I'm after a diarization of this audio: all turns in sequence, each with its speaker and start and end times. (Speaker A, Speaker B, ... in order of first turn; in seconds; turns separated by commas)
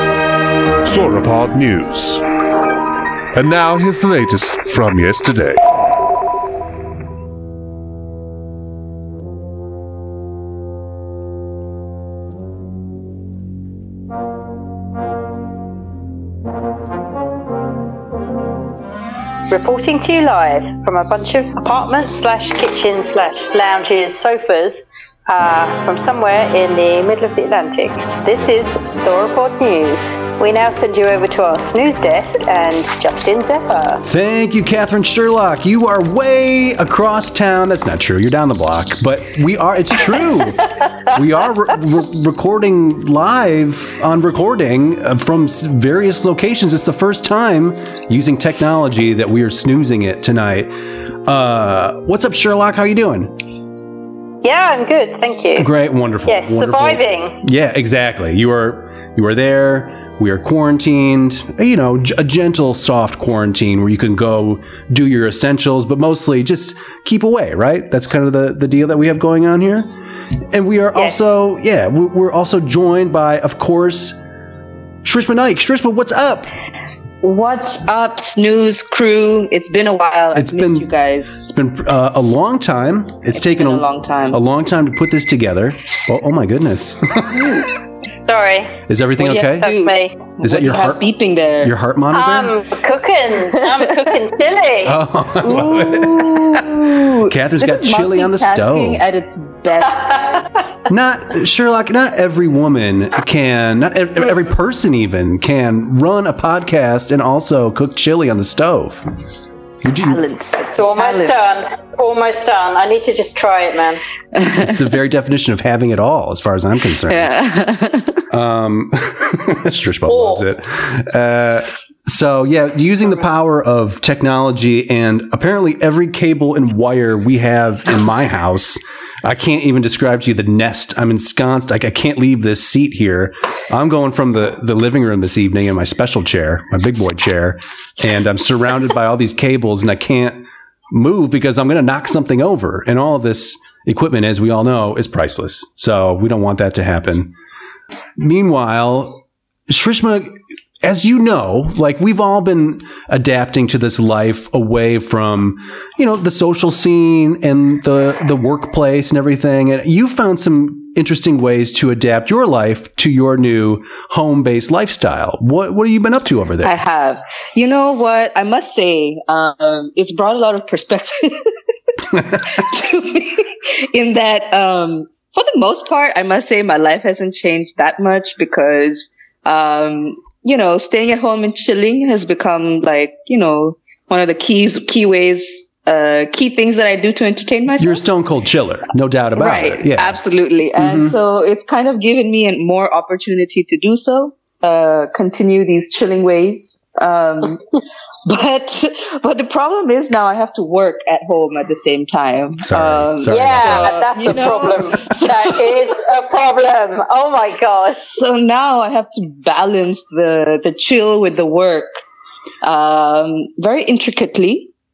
Speaker A: 0.8-2.2, Speaker A: 3.3-5.6, Speaker B: 19.5-34.0, Speaker C: 34.0-50.7, Speaker C: 51.2-53.3, Speaker B: 54.4-55.7, Speaker C: 55.5-69.9, Speaker B: 56.3-57.4, Speaker C: 70.5-74.2, Speaker C: 75.0-76.5, Speaker D: 77.2-81.4, Speaker C: 80.3-80.9, Speaker C: 81.5-87.7, Speaker D: 83.3-84.4, Speaker B: 88.3-90.2, Speaker C: 88.9-89.7, Speaker D: 89.2-91.7, Speaker C: 90.4-91.0, Speaker C: 91.6-92.5, Speaker B: 92.1-95.0, Speaker C: 94.8-99.0, Speaker D: 95.4-100.4, Speaker C: 100.9-109.0, Speaker C: 109.8-110.2, Speaker D: 109.9-111.4, Speaker B: 110.7-114.0, Speaker D: 114.3-114.8, Speaker C: 114.6-117.3, Speaker D: 117.1-118.2, Speaker C: 118.3-147.3, Speaker B: 120.1-120.4, Speaker C: 148.2-166.8, Speaker D: 166.6-171.5, Speaker D: 172.3-188.0, Speaker C: 187.8-190.2, Speaker D: 189.3-197.7, Speaker C: 190.8-191.2, Speaker D: 198.2-205.8, Speaker C: 202.6-204.0, Speaker B: 203.3-208.2, Speaker D: 208.1-211.9, Speaker D: 212.6-214.7